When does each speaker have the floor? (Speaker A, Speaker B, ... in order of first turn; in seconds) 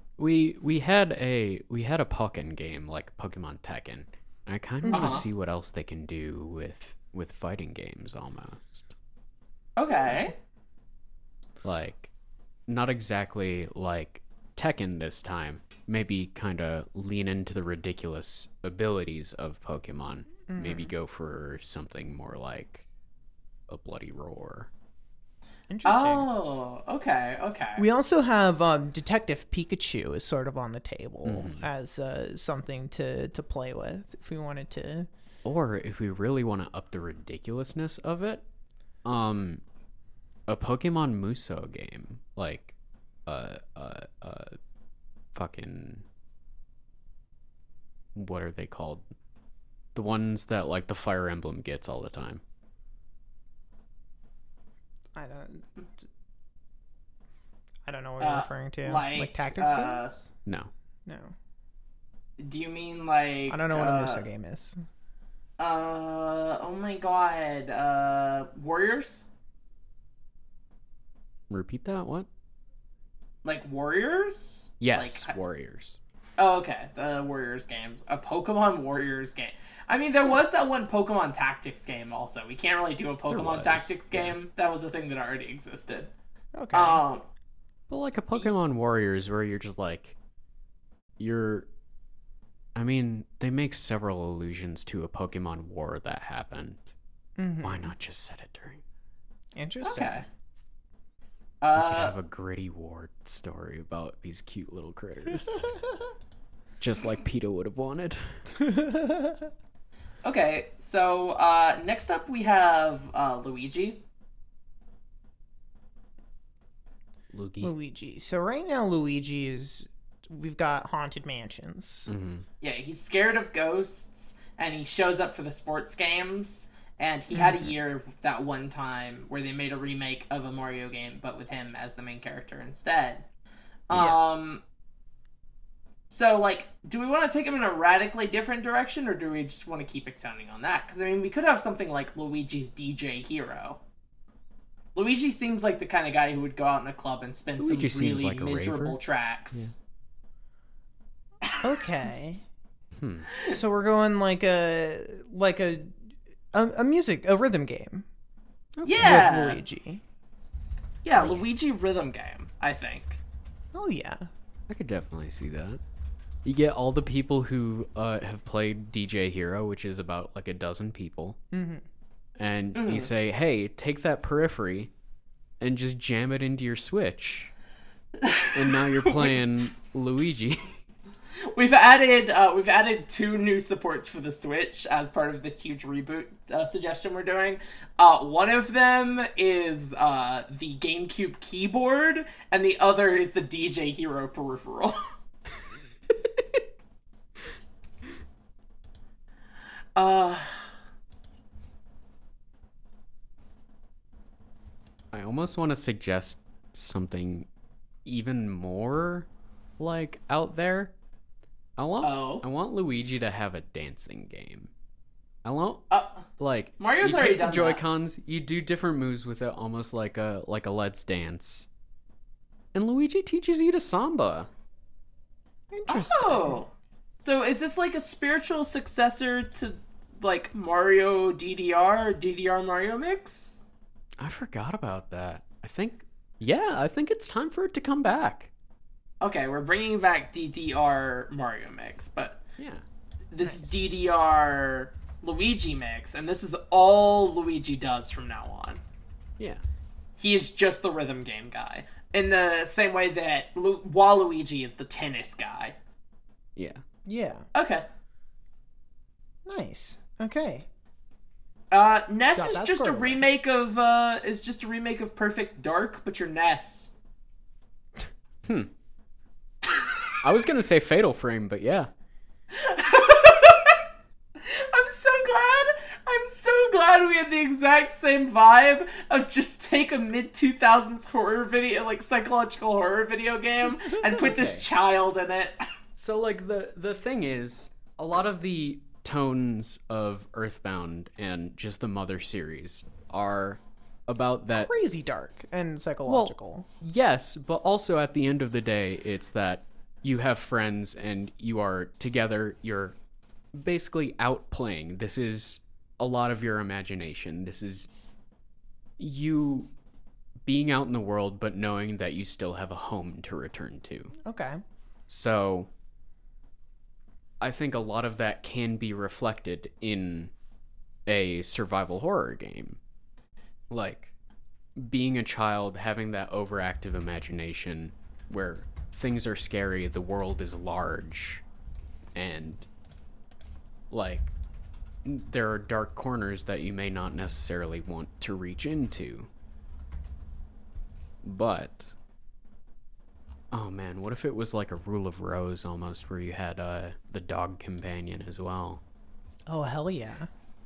Speaker A: 0.2-8.9, 11.6-12.1, 12.7-22.8, 23.7-24.7, 31.2-31.7, 35.4-38.4, 39.0-39.6, 40.5-42.7, 43.2-44.5, 45.3-46.0, 48.1-49.0, 49.9-52.4, 60.5-60.7, 71.5-72.3, 74.8-76.0, 83.3-84.3, 87.9-90.2, 91.2-91.7, 92.7-96.9, 97.6-98.8, 101.8-105.7, 106.8-108.2, 117.3-117.7, 122.1-122.5, 133.9-134.2, 147.6-149.0, 152.9-153.3, 158.8-159.3, 161.1-161.4, 164.7-165.8, 166.4-171.4, 172.4-174.9, 175.6-177.5, 178.5-180.7, 205.1-207.5, 208.0-209.3, 209.8-210.9, 211.8-214.7, 215.4-215.9, 216.4-221.7, 222.7-224.5, 234.2-238.5, 242.6-242.8, 256.6-256.8, 268.4-268.7, 270.2-271.9, 284.2-284.6, 285.9-294.7, 296.1-302.9, 303.5-307.9, 309.0-309.7, 310.4-314.1, 315.1-315.7, 317.4-320.3, 321.1-322.8, 323.7-324.1, 324.8-331.4, 332.1-332.6, 333.9-334.3, 335.0-339.3, 341.2-341.9, 343.5-348.8
Speaker B: 4.8-5.2, 20.5-20.9, 25.7-26.3, 27.8-35.1, 55.1-55.8, 57.9-60.3, 61.0-61.3, 63.5-64.8, 86.5-87.0, 97.4-97.9, 99.5-100.2, 108.6-109.4, 117.6-122.1, 151.6-152.4, 153.4-155.9, 156.5-158.1, 159.0-160.0, 163.7-164.3, 171.5-171.8, 225.7-226.6, 243.4-243.8, 257.0-257.4, 259.4-260.7, 262.4-263.2, 294.5-296.6, 314.2-314.6, 349.5-350.3
Speaker C: 4.9-5.2, 9.8-10.3, 25.8-27.8, 58.2-60.1, 62.4-64.2, 65.6-69.2, 73.4-75.3, 76.4-86.1, 86.7-87.2, 99.8-100.2, 101.6-102.1, 110.2-114.0, 122.6-133.2, 133.9-134.6, 136.1-143.8, 144.9-149.8, 151.4-151.7, 158.8-159.6, 161.0-163.2, 172.7-173.1, 178.2-179.3, 181.5-195.1, 199.9-200.7, 212.0-212.4, 215.9-216.2, 216.8-217.8, 225.9-233.7, 239.2-242.4, 243.3-248.8, 250.2-255.8, 257.5-257.9, 261.7-266.9, 272.5-273.8, 274.4-285.6